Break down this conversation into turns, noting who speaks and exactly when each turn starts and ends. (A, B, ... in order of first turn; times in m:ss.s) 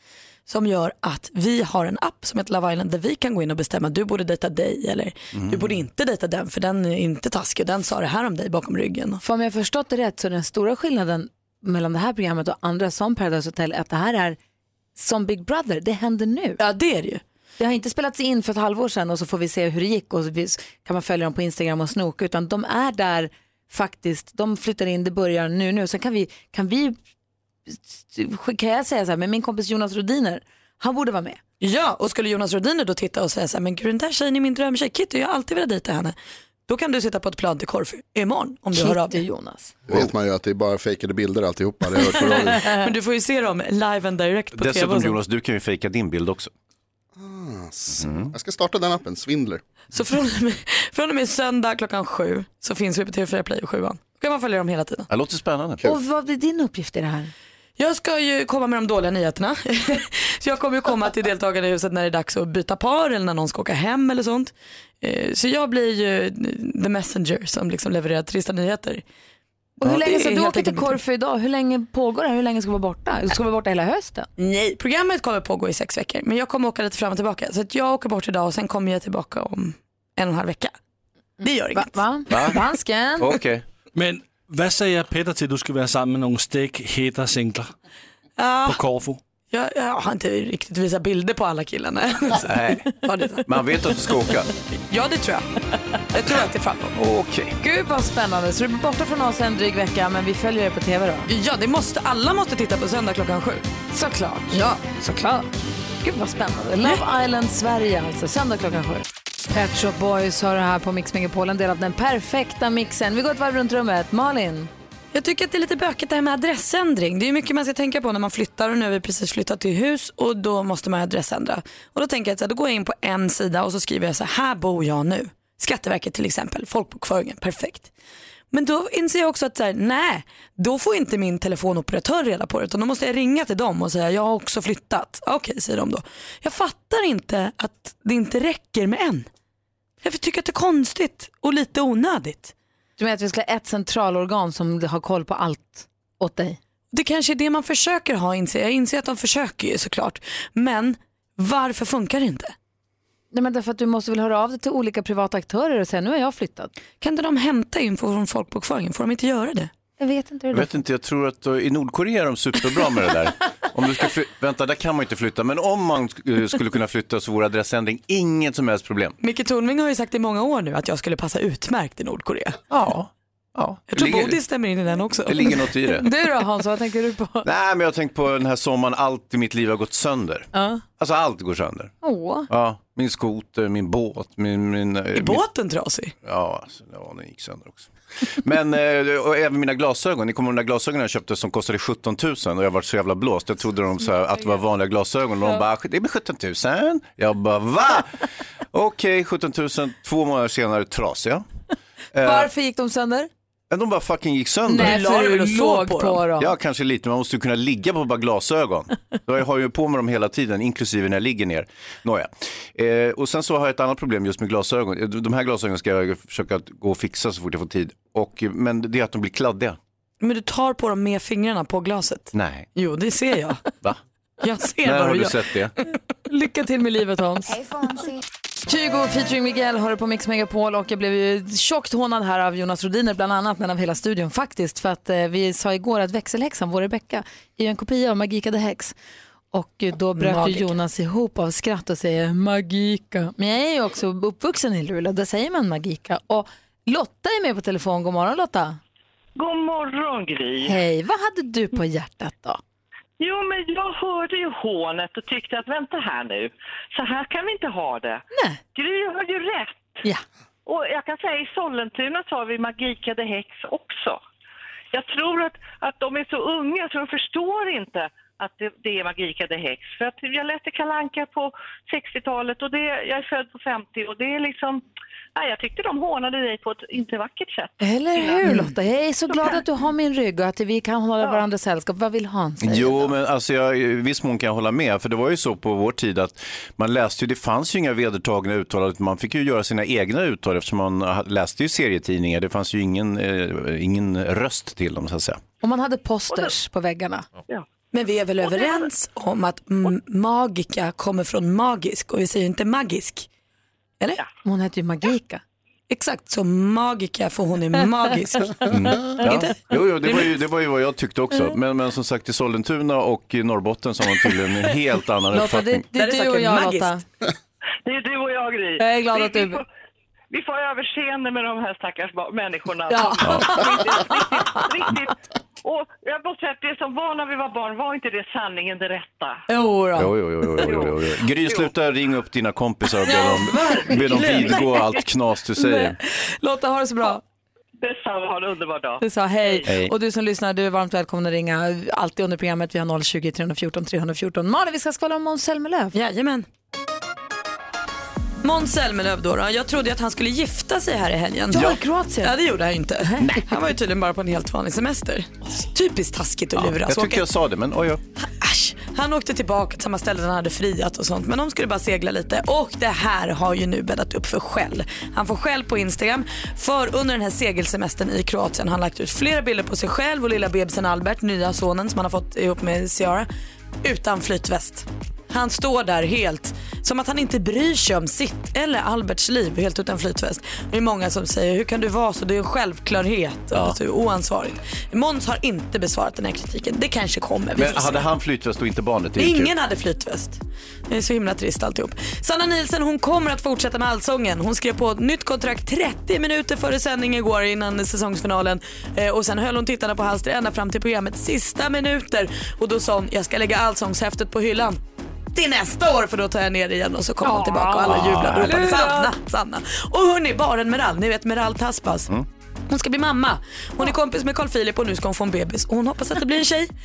0:00.5-0:09.2 A
0:05.3-0:05.8 B
0:09.2-0:14.4 C
0:15.0-0:16.6 C
0:16.6-0:17.2 A
0:17.6-0:27.0 C
0:27.7-0:31.4 C
0:31.6-0:36.1 A
0:36.7-0:39.2 A
0:38.7-0:39.8 C
0:39.9-0:42.6 D
0:42.6-0:45.2 A
0:44.5-0:46.5 B
0:47.2-0:49.6 D
0:48.0-0:48.3 B
0:49.9-0:55.1 A
0:55.1-0:55.8 B
0:55.8-0:57.3 C
0:57.8-1:09.0 A
1:09.8-1:11.0 A
1:09.8-1:14.3 C
1:14.4-1:20.7 A
1:21.4-1:22.0 A
1:21.7-1:23.4 C
1:22.3-1:22.6 B
1:23.2-1:23.6 B
1:23.9-1:27.7 E
1:28.4-1:28.8 A
1:28.7-1:29.2 E
1:29.5-1:33.5 A
1:32.4-1:32.9 B
1:33.4-1:34.5 B
1:34.7-1:35.5 A
1:36.1-1:37.0 A
1:37.0-1:37.6 B
1:37.6-1:41.3 C
1:41.3-1:43.7 A
1:43.9-1:45.5 C
1:44.5-1:44.8 A
1:46.0-1:54.7 C
1:55.1-2:07.9 A
2:08.5-2:19.3 A
2:20.0-2:22.5 A
2:23.0-2:26.6 C
2:26.9-2:32.5 A
2:33.3-2:36.7 C
2:37.0-2:39.7 A
2:40.0-2:40.8 C
2:40.5-2:49.2 B
2:49.2-2:52.6 A
2:52.7-2:54.4 B
2:53.9-2:55.5 A
2:55.2-2:56.1 B
2:56.0-2:57.5 C
2:57.4-3:01.9 B
3:00.5-3:00.8 C
3:02.0-3:02.5 C
3:02.5-3:05.4 B
3:05.1-3:06.1 A
3:06.2-3:21.4 B
3:22.1-3:22.5 B
3:22.2-3:23.3 C
3:23.7-3:25.0 B
3:24.7-3:26.5 C
3:24.8-3:26.2 A
3:26.4-3:39.8 B
3:40.2-3:43.6 A
3:42.3-3:42.7 B
3:44.4-3:45.4 A
3:44.8-3:45.7 B
3:46.3-3:48.0 C
3:48.6-3:58.9 C
3:59.5-4:08.8 C
4:00.2-4:00.7 A
4:09.4-4:10.8 F
4:10.6-4:12.6 C
4:13.2-4:20.0 F
4:18.3-4:18.6 C
4:20.6-4:24.2 F
4:24.9-4:34.8 F
4:35.4-4:38.4 F
4:37.8-4:43.1 C
4:38.4-4:38.7 A
4:39.3-4:39.6 F
4:42.6-4:55.4 B
4:55.6-4:57.3 C
4:57.9-5:03.3 A
4:58.6-4:58.8 F
5:04.4-5:05.4 C
5:05.9-5:10.2 A
5:08.7-5:15.8 B
5:15.3-5:17.0 C
5:16.0-5:17.0 A
5:17.8-5:19.6 F
5:18.8-5:19.6 C
5:20.3-5:29.4 F
5:22.9-5:24.2 C
5:23.2-5:23.6 B
5:29.5-5:30.7 C
5:30.0-5:36.0 B
5:30.6-5:31.7 F
5:33.1-5:34.6 C
5:33.8-5:34.4 A
5:35.6-5:37.2 C
5:37.8-5:39.6 F
5:39.0-5:45.9 C
5:39.7-5:39.9 B
5:45.9-5:46.5 A
5:48.4-5:57.2 A
5:51.5-5:52.4 C
5:53.0-5:53.3 C
5:53.2-5:53.4 B
5:56.6-5:58.0 B
5:58.2-6:13.3 A
6:13.8-6:28.0 A
6:27.5-6:29.5 B
6:29.2-6:44.8 A
6:45.3-6:52.1 A
6:47.3-6:49.1 C
6:47.8-6:48.7 B
6:52.7-6:56.7 A